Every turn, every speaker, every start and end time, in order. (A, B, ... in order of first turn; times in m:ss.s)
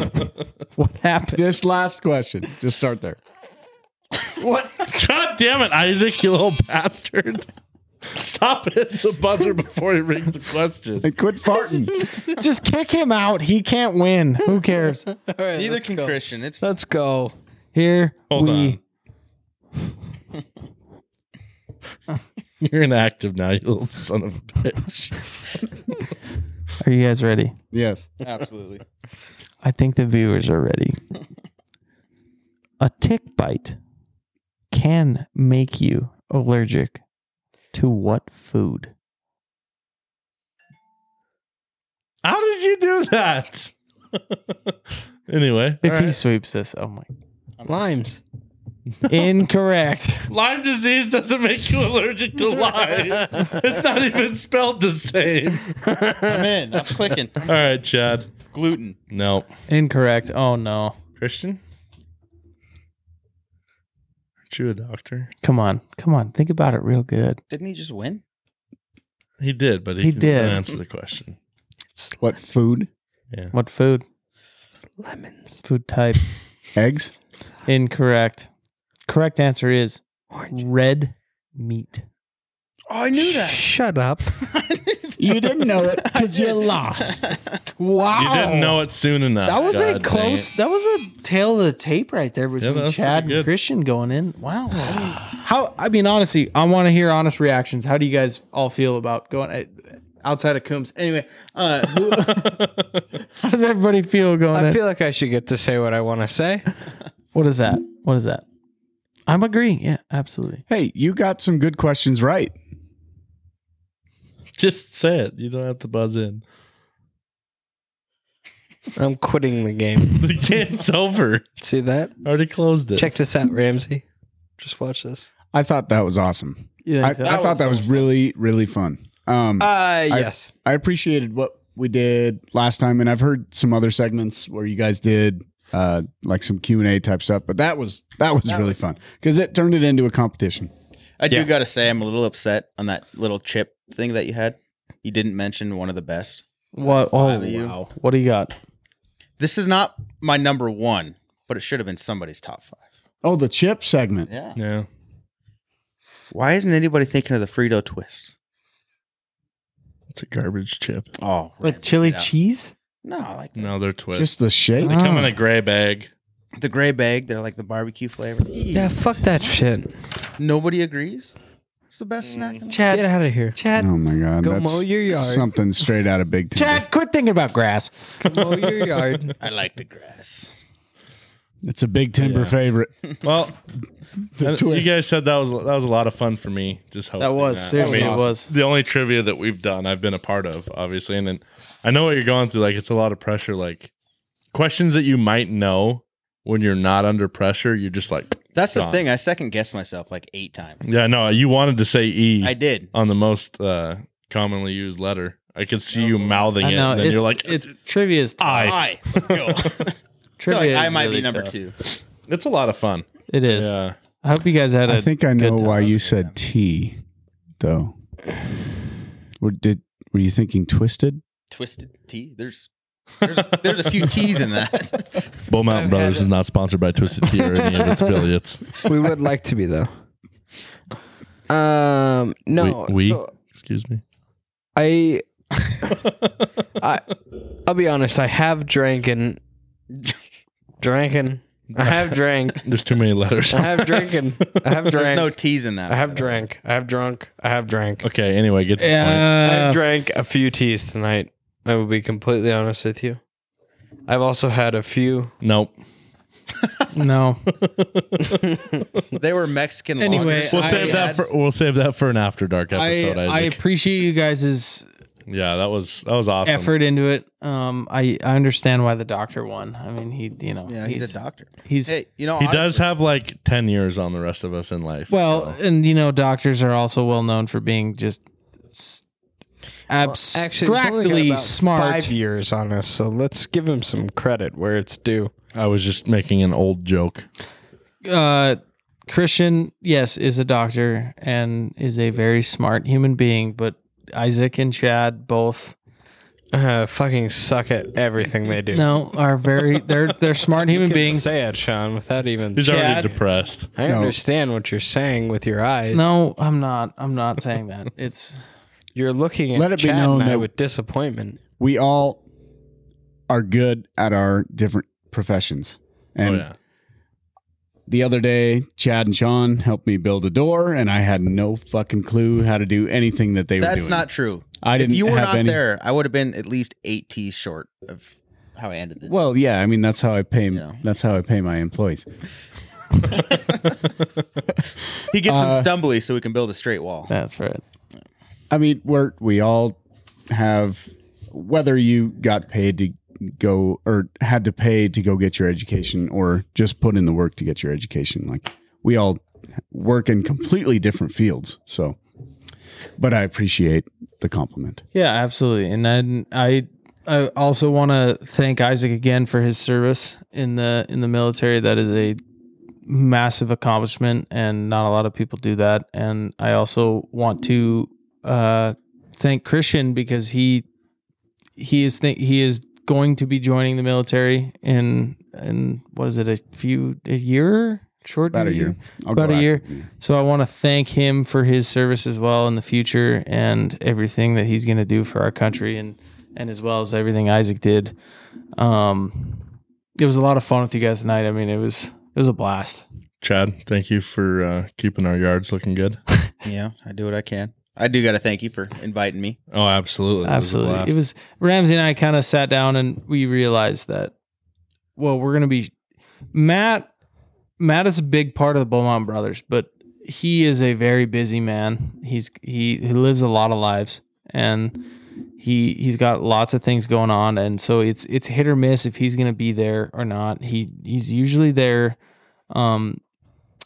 0:00.8-0:01.4 A
0:01.3-0:03.2 B
0:04.4-0:04.9 B
0:04.9-0:07.5 C
0:08.1-0:11.1 C
0:11.0-0:12.0 B
0:12.2-0:15.1 A
0:15.1-0:17.3 D
0:15.5-0:16.7 E
0:17.7-0:18.8 A
0:18.3-0:18.8 C
0:22.6-0:25.6 C
0:26.8-0:27.6 A
0:27.7-0:28.1 B
0:28.2-0:28.8 E
0:29.6-0:31.0 A
0:32.8-0:33.8 A
0:34.7-0:37.0 A
0:37.7-0:38.9 A
0:42.2-0:43.7 C
0:44.3-0:44.7 C
0:45.3-0:46.2 C
0:45.8-0:47.1 A
0:47.6-0:47.9 E
0:47.6-0:48.2 D
0:49.0-0:49.3 C
0:49.1-0:50.3 A
0:50.3-0:55.7 C
0:55.8-0:56.5 D
0:56.2-0:57.5 E
0:57.4-0:58.3 C
0:58.5-0:59.0 E
0:59.1-0:59.5 C
0:59.7-1:01.0 A
1:01.2-1:01.6 C
1:04.5-1:05.3 C
1:05.4-1:07.4 A
1:07.5-1:08.2 E
1:09.4-1:11.4 C
1:10.0-1:10.6 A
1:12.2-1:12.9 B
1:13.5-1:14.0 A
1:15.0-1:15.6 D
1:15.6-1:16.3 A
1:16.8-1:17.1 B
1:17.7-1:18.5 A
1:19.1-1:22.0 A
1:20.3-1:20.6 D
1:22.9-1:23.7 E
1:23.2-1:24.3 D
1:24.4-1:27.5 E
1:25.2-1:27.3 B
1:27.8-1:28.8 A
1:28.2-1:30.5 C
1:29.4-1:42.7 A
1:32.6-1:33.5 C
1:42.1-1:43.0 C
1:43.4-1:44.8 A
1:44.5-1:46.7 D
1:47.3-1:48.4 A
1:49.3-1:50.6 A
1:50.7-1:52.6 B
1:54.6-1:56.4 C
1:59.0-2:00.4 D
2:00.1-2:01.5 C
2:01.6-2:02.1 D
2:02.2-2:03.1 C
2:03.0-2:04.0 D
2:04.6-2:05.3 D
2:05.5-2:20.7 B
2:06.8-2:07.7 A
2:07.2-2:08.1 E
2:09.6-2:10.5 D
2:18.5-2:18.8 E
2:21.2-2:27.8 E
2:26.7-2:28.5 A
2:29.4-2:32.8 E
2:33.2-2:34.3 B
2:34.3-2:34.6 E
2:34.6-2:34.9 C
2:36.3-2:38.4 E
2:40.1-2:41.1 C
2:41.2-2:42.3 E
2:41.6-2:42.7 A
2:43.0-2:43.7 E
2:43.6-2:44.3 C
2:44.1-2:45.0 B
2:44.8-2:45.3 A
2:44.8-2:46.1 C
2:46.6-2:48.7 E
2:48.5-2:49.3 A
2:48.7-2:49.9 D
2:50.4-2:51.4 E
2:51.9-2:52.8 E
2:52.3-2:52.6 C
2:52.7-2:53.9 A
2:52.9-2:53.6 D
2:53.8-2:56.8 B
2:54.4-2:55.5 D
2:56.6-2:58.5 A
2:58.2-2:59.3 D
2:59.4-3:00.6 E
3:01.6-3:02.9 B
3:02.2-3:02.6 C
3:03.2-3:03.6 C
3:04.4-3:05.1 B
3:04.4-3:13.9 C
3:07.2-3:08.5 A
3:07.7-3:08.3 B
3:14.5-3:19.0 C
3:18.6-3:20.9 E
3:20.8-3:27.6 C
3:22.4-3:22.9 E
3:25.9-3:26.6 E
3:26.6-3:28.8 A
3:28.4-3:29.8 C
3:28.5-3:30.0 E
3:30.4-3:31.5 A
3:30.5-3:31.8 E
3:32.3-3:34.0 C
3:33.3-3:35.9 A
3:34.9-3:37.0 B
3:35.7-3:36.4 E
3:37.6-3:37.9 B
3:39.4-3:41.2 B
3:41.5-3:42.7 E
3:43.2-3:45.3 E
3:45.5-3:48.9 C
3:45.7-3:46.3 D
3:48.8-3:49.9 D
3:51.5-3:53.3 D
3:52.6-3:54.0 C
3:54.8-3:55.9 D
3:56.8-3:57.1 D
3:57.6-3:59.4 D
4:00.8-4:02.7 D
4:01.8-4:04.6 C
4:03.5-4:08.1 D
4:04.9-4:06.5 E
4:08.0-4:09.4 C
4:08.8-4:09.9 A
4:09.4-4:13.2 D
4:14.1-4:15.3 D
4:15.4-4:15.7 C
4:16.9-4:17.4 A
4:17.6-4:18.5 C
4:19.2-4:21.3 E
4:20.0-4:21.2 A
4:20.1-4:23.6 C
4:22.7-4:24.9 A
4:25.3-4:26.7 C
4:26.4-4:31.9 A
4:30.7-4:32.9 E
4:32.4-4:35.6 C
4:35.1-4:39.0 A
4:39.9-4:42.2 A
4:40.0-4:45.3 D
4:45.5-4:47.3 C
4:48.0-4:55.8 A
4:56.5-4:58.9 D
4:58.7-5:01.3 A
5:00.7-5:02.9 D
5:02.6-5:03.7 C
5:02.6-5:03.1 A
5:03.8-5:06.0 D
5:03.8-5:04.2 B
5:05.9-5:08.5 A
5:09.0-5:11.4 D
5:09.5-5:10.5 B
5:11.6-5:12.2 B
5:13.3-5:16.5 B
5:16.2-5:16.6 C
5:17.9-5:24.1 B
5:23.6-5:29.2 E
5:24.6-5:25.6 B
5:29.1-5:32.0 B
5:30.5-5:30.8 E
5:33.1-5:33.6 E
5:35.1-5:37.1 E
5:35.2-5:35.8 B
5:37.1-5:37.6 A
5:38.5-5:39.8 B
5:40.3-5:52.0 B
5:53.0-5:54.8 B
5:54.9-6:02.2 A
6:02.9-6:10.6 A
6:11.6-6:28.0 A
6:18.3-6:19.9 B
6:28.6-6:32.8 A
6:33.2-6:36.0 C
6:36.4-6:39.4 E
6:39.5-6:41.0 C
6:40.2-6:44.1 A
6:45.0-6:45.7 A
6:46.3-6:46.9 A
6:47.6-6:54.8 A
6:55.4-7:02.0 A
7:02.5-7:03.0 A